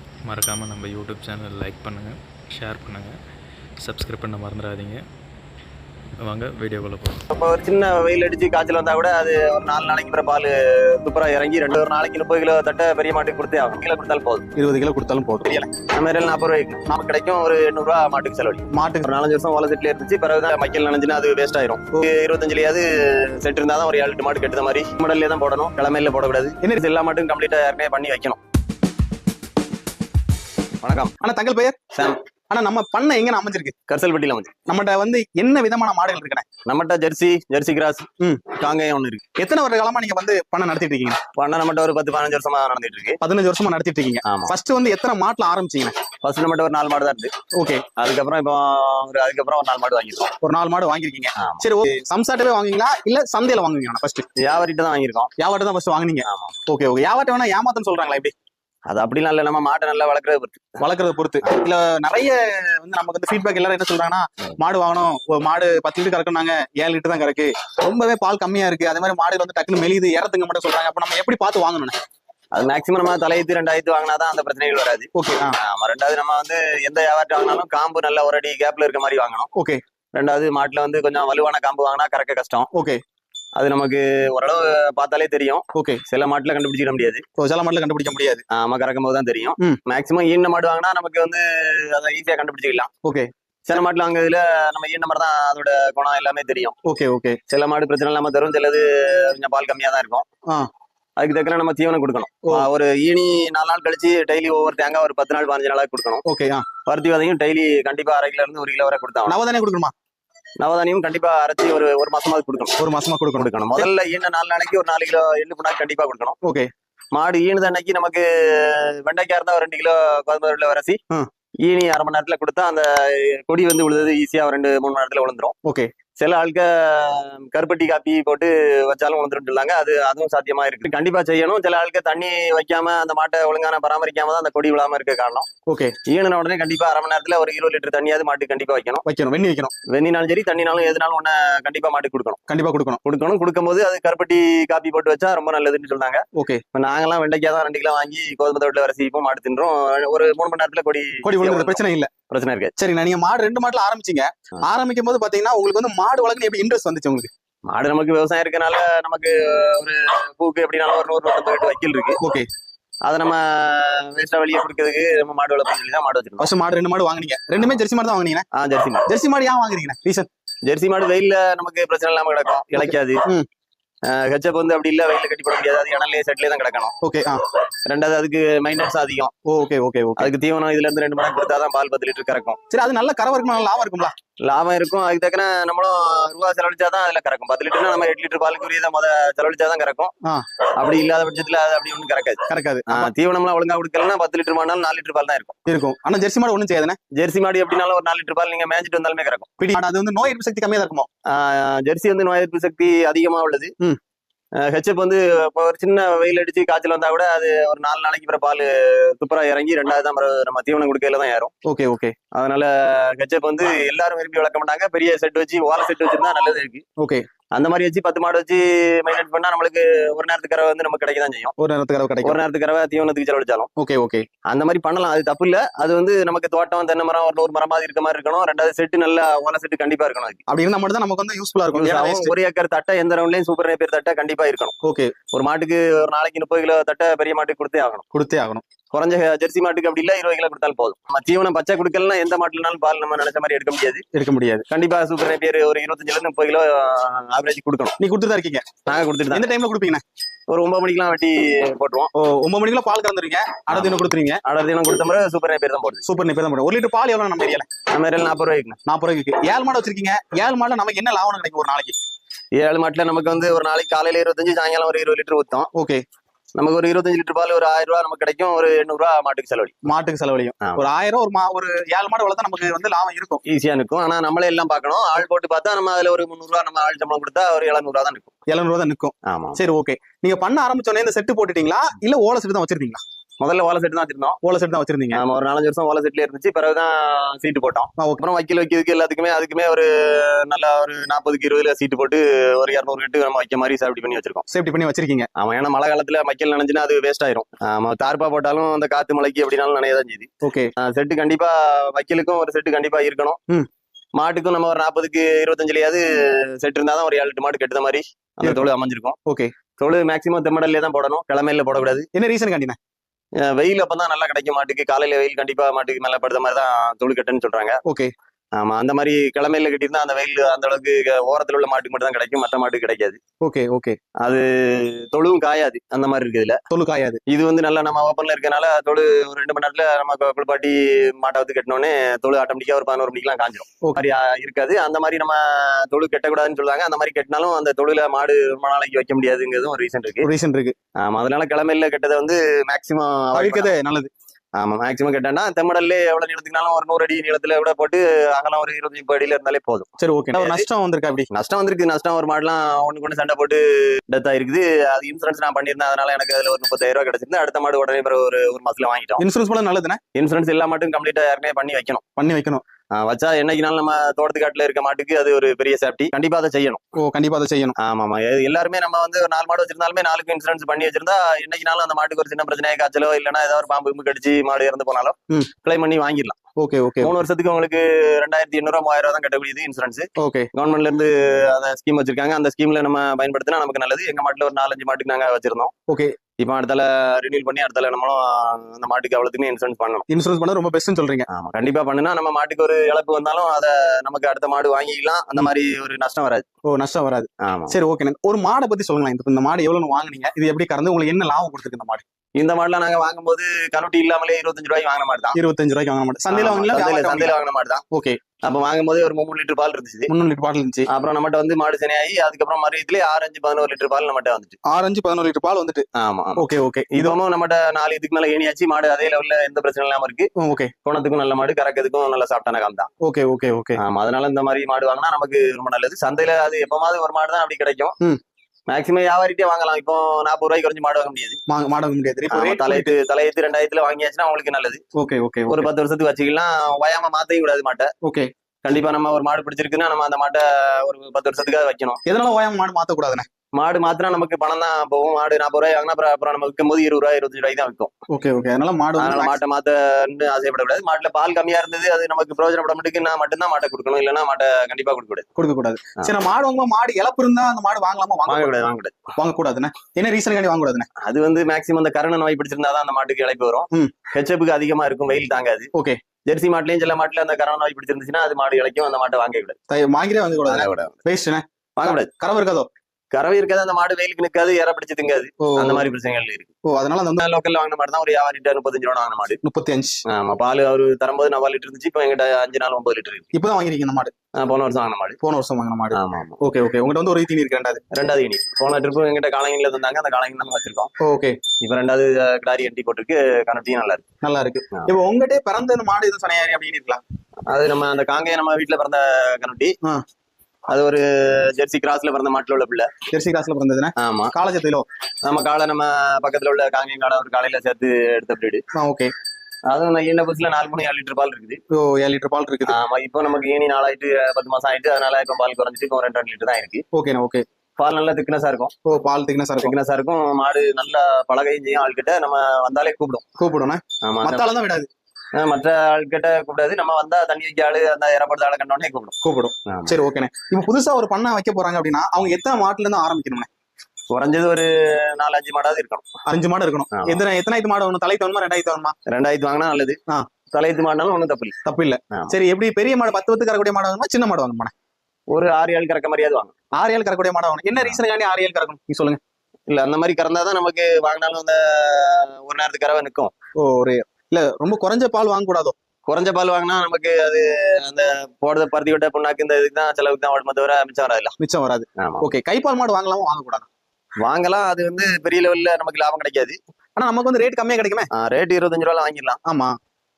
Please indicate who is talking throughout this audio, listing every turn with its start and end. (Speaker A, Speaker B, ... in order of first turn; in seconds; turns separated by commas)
Speaker A: 0.2-3.1, Speaker A: 3.8-5.0, Speaker A: 6.2-7.2, Speaker B: 7.3-14.4, Speaker C: 14.6-15.7, Speaker B: 15.9-28.4, Speaker C: 18.7-19.1, Speaker B: 30.8-31.1, Speaker C: 31.2-31.8, Speaker B: 31.9-32.2, Speaker C: 32.5-33.7, Speaker B: 33.9-34.5, Speaker C: 34.7-36.5, Speaker B: 36.6-39.2, Speaker C: 39.4-41.2, Speaker B: 41.4-43.2, Speaker C: 43.2-45.9, Speaker B: 44.2-44.5, Speaker B: 46.2-47.3, Speaker C: 47.6-47.9, Speaker B: 48.0-50.3, Speaker C: 50.4-54.3, Speaker B: 51.4-51.7, Speaker B: 54.4-55.3, Speaker C: 55.4-58.3, Speaker B: 56.2-56.5, Speaker B: 58.9-60.8, Speaker C: 60.8-72.0, Speaker B: 72.5-79.5, Speaker C: 75.2-75.5, Speaker C: 79.5-79.8, Speaker B: 80.2-82.7, Speaker C: 82.7-83.0, Speaker B: 83.6-87.2, Speaker C: 85.8-86.0, Speaker C: 87.4-88.4, Speaker B: 88.5-92.9, Speaker B: 93.7-96.8, Speaker C: 96.9-97.4, Speaker B: 97.5-100.2, Speaker B: 101.2-106.2, Speaker C: 106.2-106.7, Speaker B: 106.9-109.4, Speaker C: 109.3-109.9, Speaker B: 110.6-112.8, Speaker C: 112.8-113.9, Speaker B: 113.4-116.4, Speaker C: 116.4-116.7, Speaker B: 117.1-121.0, Speaker B: 121.6-125.5, Speaker C: 125.7-125.9, Speaker B: 126.2-135.5, Speaker C: 135.7-135.9, Speaker B: 136.1-139.1, Speaker C: 139.1-139.7, Speaker B: 139.9-142.4, Speaker C: 142.5-143.0, Speaker B: 143.0-152.7, Speaker C: 146.4-146.6, Speaker C: 151.2-152.1, Speaker C: 152.8-157.3, Speaker B: 157.7-162.2, Speaker C: 162.2-162.5, Speaker B: 163.1-166.5, Speaker C: 166.4-168.5, Speaker B: 168.5-169.1, Speaker C: 169.1-170.3, Speaker B: 170.7-173.2, Speaker C: 172.8-173.5, Speaker B: 174.1-176.9, Speaker C: 177.0-177.4, Speaker B: 177.9-179.3, Speaker C: 179.5-180.3, Speaker B: 180.2-182.6, Speaker C: 182.7-184.1, Speaker B: 184.4-190.1, Speaker B: 190.8-195.6, Speaker C: 192.5-193.1, Speaker C: 195.7-197.0, Speaker B: 197.2-199.5, Speaker C: 199.6-201.1, Speaker B: 201.3-203.7, Speaker B: 204.6-211.5, Speaker C: 211.7-212.1, Speaker B: 212.3-216.8, Speaker B: 217.5-221.5, Speaker C: 221.6-222.4, Speaker B: 222.2-223.7, Speaker C: 223.8-224.2, Speaker B: 224.5-230.4, Speaker C: 230.5-232.3, Speaker B: 231.7-234.7, Speaker C: 234.8-235.1, Speaker B: 235.3-238.0, Speaker C: 238.1-238.6, Speaker B: 238.9-244.1, Speaker C: 244.1-244.7, Speaker B: 244.7-247.9, Speaker C: 248.0-248.7, Speaker B: 248.9-249.5, Speaker C: 249.3-250.0, Speaker B: 250.5-252.1, Speaker C: 252.2-254.4, Speaker B: 253.7-256.1, Speaker C: 256.1-257.7, Speaker B: 257.9-258.8, Speaker C: 258.9-262.0, Speaker B: 262.6-265.7, Speaker C: 265.7-266.0, Speaker B: 266.6-269.8, Speaker C: 269.9-273.4, Speaker B: 273.5-278.3, Speaker C: 278.5-283.0, Speaker B: 279.3-279.6, Speaker B: 283.4-284.4, Speaker C: 284.4-285.2, Speaker B: 285.1-294.4, Speaker C: 288.0-288.2, Speaker C: 294.5-295.3, Speaker B: 295.4-300.3, Speaker C: 300.4-300.7, Speaker B: 300.8-303.4, Speaker B: 304.2-309.2, Speaker C: 309.3-309.5, Speaker B: 309.8-312.1, Speaker C: 312.1-312.8, Speaker B: 313.4-317.8, Speaker C: 317.9-318.1, Speaker B: 318.6-323.2, Speaker C: 323.4-324.0, Speaker B: 324.2-326.6, Speaker C: 326.7-327.2, Speaker B: 327.3-340.3, Speaker C: 340.2-340.8, Speaker B: 341.0-343.8, Speaker C: 343.3-344.1, Speaker B: 344.6-350.7, Speaker C: 350.0-351.3, Speaker B: 351.3-359.2, Speaker C: 359.2-360.0, Speaker B: 360.1-362.0, Speaker C: 362.2-362.6, Speaker B: 362.9-366.8, Speaker C: 367.0-367.8, Speaker B: 367.8-376.4, Speaker C: 376.6-377.1, Speaker B: 377.0-385.7, Speaker C: 380.2-380.5, Speaker C: 385.9-386.1, Speaker B: 386.4-390.1, Speaker C: 390.1-391.3, Speaker B: 391.3-396.5, Speaker C: 396.7-402.0, Speaker B: 397.4-397.8, Speaker B: 402.4-405.4, Speaker C: 405.4-407.4, Speaker B: 406.3-407.8, Speaker C: 407.9-408.2, Speaker B: 408.4-410.1, Speaker C: 410.1-410.9, Speaker B: 410.9-414.6, Speaker C: 414.7-415.8, Speaker B: 416.0-420.3, Speaker C: 416.4-417.2, Speaker C: 420.4-420.7, Speaker B: 420.8-422.9, Speaker C: 423.0-423.8, Speaker B: 423.8-427.9, Speaker B: 428.7-431.4, Speaker C: 431.5-432.9, Speaker B: 432.3-434.8, Speaker C: 435.0-435.7, Speaker B: 435.5-437.9, Speaker C: 438.0-438.3, Speaker B: 438.6-442.0, Speaker C: 442.1-443.3, Speaker B: 443.6-447.9, Speaker C: 448.1-449.4, Speaker B: 449.0-455.3, Speaker C: 455.4-458.6, Speaker B: 458.3-459.0, Speaker C: 459.2-460.9, Speaker B: 461.0-465.7, Speaker C: 465.7-466.0, Speaker B: 466.3-469.6, Speaker C: 469.7-472.7, Speaker B: 470.4-471.0, Speaker B: 471.8-472.1, Speaker B: 473.1-476.5, Speaker C: 475.4-475.9, Speaker C: 476.6-477.2, Speaker B: 477.2-479.4, Speaker C: 479.4-480.0, Speaker B: 480.1-483.3, Speaker C: 483.3-484.1, Speaker B: 484.4-485.2, Speaker C: 485.2-487.8, Speaker B: 485.9-486.4, Speaker B: 487.9-490.9, Speaker C: 491.0-491.4, Speaker B: 491.6-494.0, Speaker C: 494.2-497.0, Speaker B: 497.5-499.8, Speaker B: 500.7-502.9, Speaker C: 503.1-504.9, Speaker B: 504.0-504.3, Speaker B: 505.2-508.6, Speaker C: 508.8-509.1, Speaker B: 509.7-511.6, Speaker C: 511.7-512.8, Speaker B: 512.7-516.8, Speaker C: 516.9-517.4, Speaker B: 517.8-518.7, Speaker C: 518.9-519.8, Speaker B: 519.6-523.2, Speaker C: 523.4-524.9, Speaker B: 524.0-524.5, Speaker B: 525.4-529.1, Speaker C: 529.2-533.5, Speaker B: 529.7-530.0, Speaker B: 534.1-536.1, Speaker C: 536.3-538.9, Speaker B: 536.9-537.2, Speaker B: 539.1-540.0, Speaker B: 540.5-541.5, Speaker C: 541.6-544.7, Speaker B: 545.3-546.5, Speaker C: 546.8-549.2, Speaker B: 549.7-553.3, Speaker C: 553.6-555.8, Speaker B: 556.1-561.4, Speaker C: 561.4-563.7, Speaker B: 562.0-562.3, Speaker B: 564.2-566.6, Speaker C: 567.0-568.1, Speaker B: 568.1-569.4, Speaker C: 569.5-569.8